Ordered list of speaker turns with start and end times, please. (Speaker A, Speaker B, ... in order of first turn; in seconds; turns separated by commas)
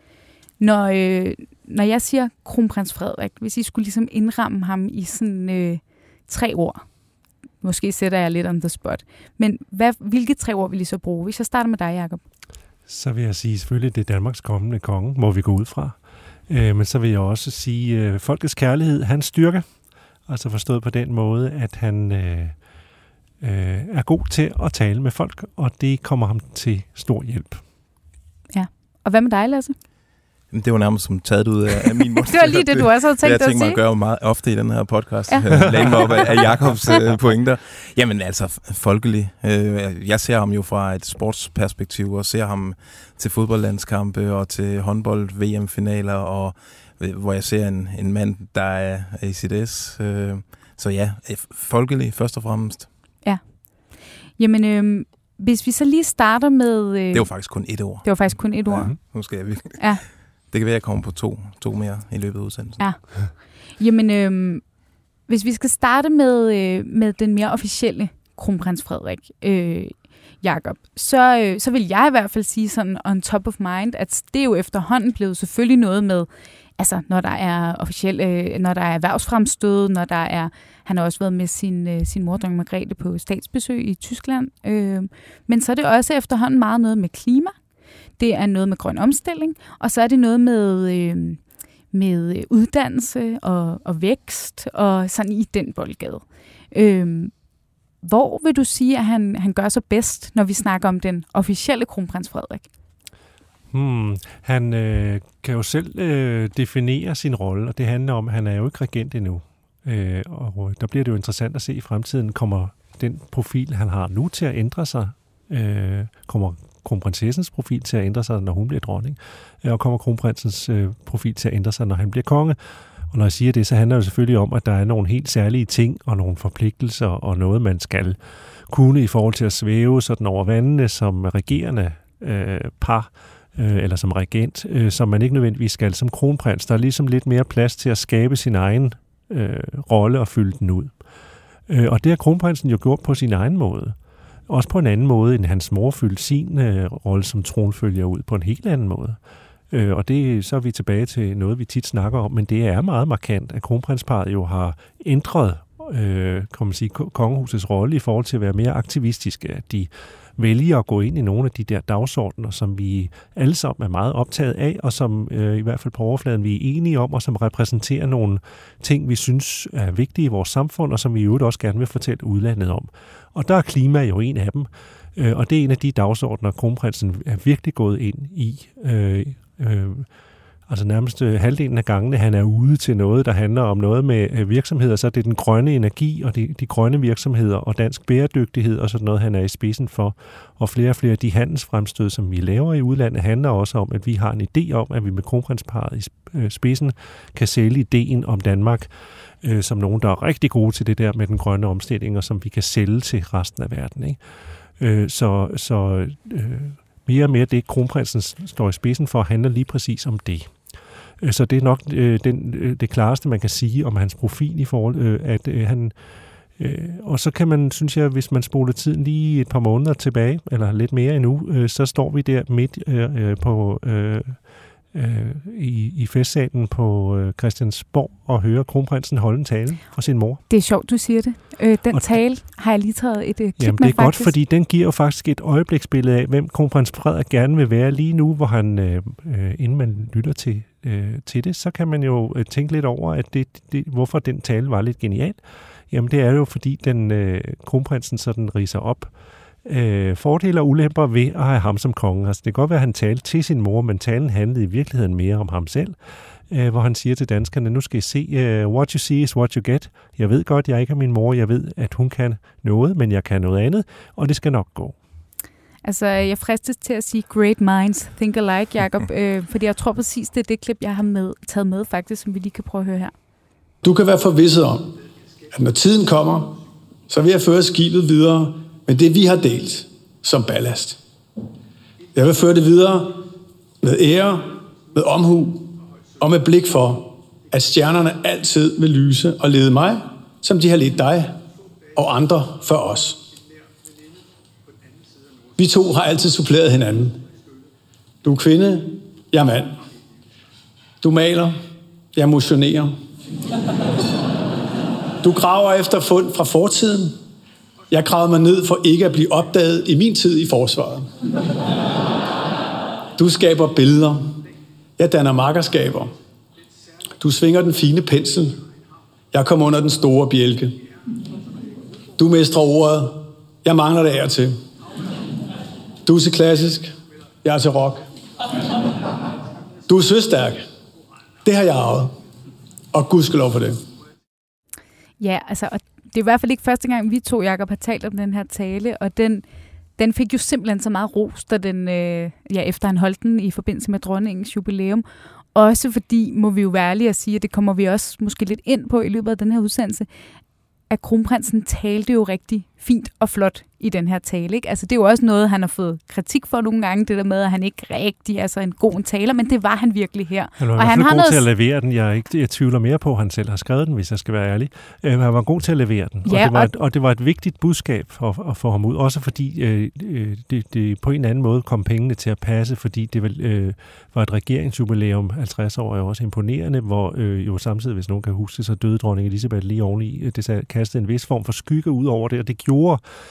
Speaker A: 0.6-6.8, Speaker A: 7.6-12.2, Speaker B: 12.9-22.6, Speaker B: 23.4-27.6, Speaker A: 28.5-29.8, Speaker C: 30.5-52.9, Speaker A: 32.2-33.8, Speaker A: 35.3-36.3, Speaker B: 35.7-35.9, Speaker A: 54.4-59.0, Speaker C: 57.1-62.9, Speaker A: 59.8-60.0, Speaker A: 62.8-64.6, Speaker A: 65.3-87.5, Speaker A: 88.2-97.3, Speaker A: 98.0-102.7, Speaker B: 103.7-141.0, Speaker B: 141.7-144.0, Speaker B: 144.5-149.2, Speaker B: 149.7-180.1, Speaker B: 180.7-204.2, Speaker B: 204.8-216.0, Speaker B: 216.5-230.4, Speaker A: 230.5-234.3, Speaker B: 231.9-232.2, Speaker B: 233.6-249.1, Speaker B: 249.6-255.9, Speaker B: 256.5-265.0, Speaker A: 265.8-273.1, Speaker D: 273.8-274.9, Speaker D: 275.5-281.0, Speaker D: 282.1-283.3, Speaker D: 283.8-291.4, Speaker D: 291.9-293.3, Speaker D: 295.6-297.2, Speaker D: 298.2-299.8, Speaker D: 301.0-301.6, Speaker D: 302.1-302.9, Speaker D: 305.2-307.2, Speaker D: 307.9-311.1, Speaker D: 313.2-314.4, Speaker D: 315.0-316.1, Speaker D: 317.2-318.6, Speaker D: 319.3-320.8, Speaker D: 322.2-324.6, Speaker D: 326.0-326.9, Speaker D: 327.4-328.1, Speaker D: 329.9-330.6, Speaker D: 331.4-332.1, Speaker D: 332.9-333.8, Speaker A: 335.2-339.4, Speaker A: 340.0-345.0, Speaker A: 345.6-350.1, Speaker A: 350.9-361.4, Speaker B: 360.6-383.0, Speaker A: 366.3-366.7